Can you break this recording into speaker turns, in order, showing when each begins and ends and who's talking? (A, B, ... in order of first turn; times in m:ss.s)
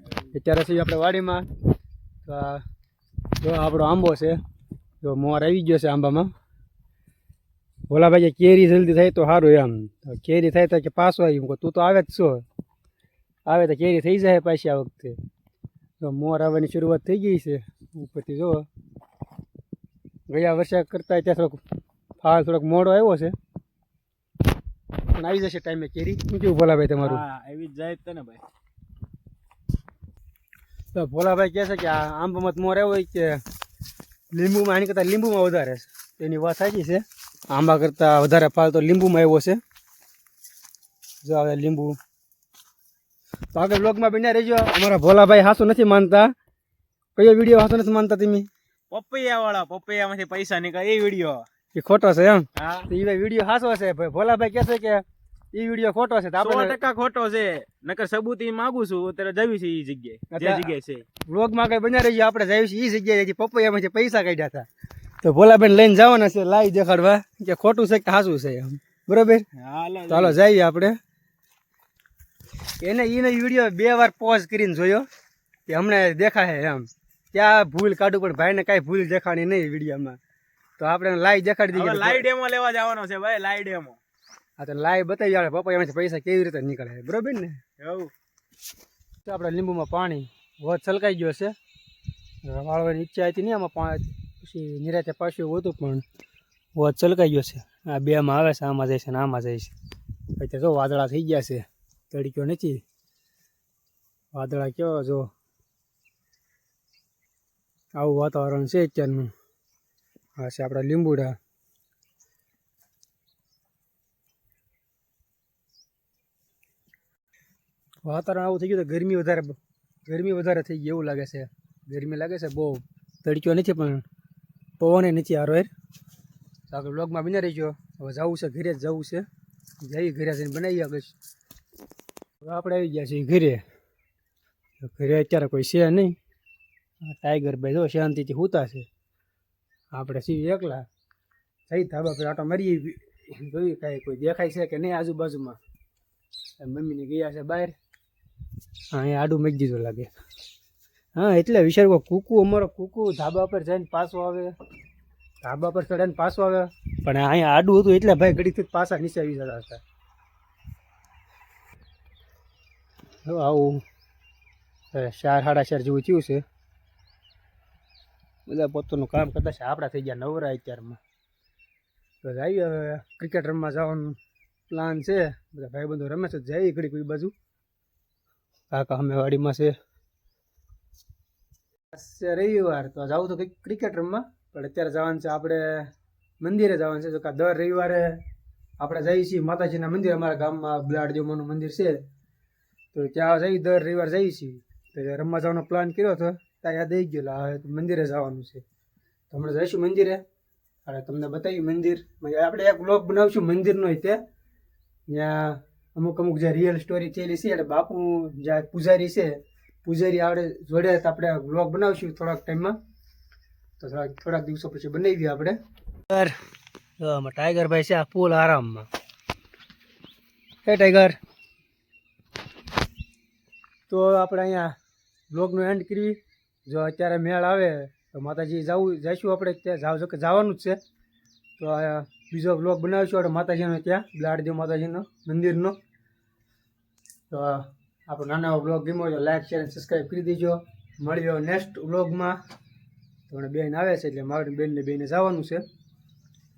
0:00.3-0:01.5 A
0:02.2-0:02.6 A
0:03.4-0:04.4 A
0:05.0-0:06.3 A
0:07.9-0:12.4 A
0:13.5-0:15.2 A
0:16.0-0:18.7 A
0:20.3-0:21.6 A
0:22.2-0:23.4 A
0:25.1-0:27.2 A
0:27.0-0:28.4 B
0:30.9-0:33.4 A
0:34.3-0:39.6 A
0:41.2-0:42.0 A
0:43.5-0:46.3 A
0:47.2-0:48.5 A
0:48.9-0:51.5 B
0:51.7-0:56.8 A
0:52.6-0:52.9 B
0:56.4-1:01.1 B
1:00.3-1:00.7 A
1:01.2-1:04.7 A
1:05.2-1:09.5 A
1:09.6-1:10.4 B
1:10.1-1:11.0 A
1:12.8-1:15.1 A
1:15.7-1:20.2 A
1:20.8-1:22.3 A
1:21.7-1:24.0 B
1:24.6-1:27.6 A
1:27.8-1:28.1 B
1:29.2-1:31.6 A
1:32.4-1:36.0 A
1:36.8-1:39.7 A
1:40.4-1:42.8 A
1:44.3-1:45.3 A
1:48.0-1:49.3 A
1:50.4-1:51.4 A
1:58.0-2:04.0 A
2:04.8-2:05.7 A
2:06.7-2:09.3 A
2:09.8-2:11.1 A
2:12.4-2:13.6 A
2:14.8-2:16.2 A
2:17.0-2:18.9 A
2:19.9-2:20.8 A
2:21.7-2:25.6 A
2:26.6-2:27.8 A
2:28.9-2:30.1 A
2:31.2-2:34.5 A
2:35.4-2:39.8 A
2:43.3-2:43.8 A
2:44.9-2:46.4 A
2:48.5-2:51.0 A
2:52.2-2:54.2 A
2:54.7-2:57.3 A
2:58.7-2:59.8 A
3:01.9-3:08.2 A
3:08.8-3:12.0 A
3:12.9-3:18.6 A
3:19.3-3:20.2 A
3:20.8-3:24.2 A
3:25.1-3:32.8 A
3:33.8-3:35.6 A
3:36.1-3:36.3 A
3:37.0-3:38.9 A
3:40.6-3:41.2 A
3:43.9-3:44.8 A
3:45.3-3:50.8 A
3:51.6-3:55.8 A
3:57.3-4:02.4 A
4:03.3-4:05.6 A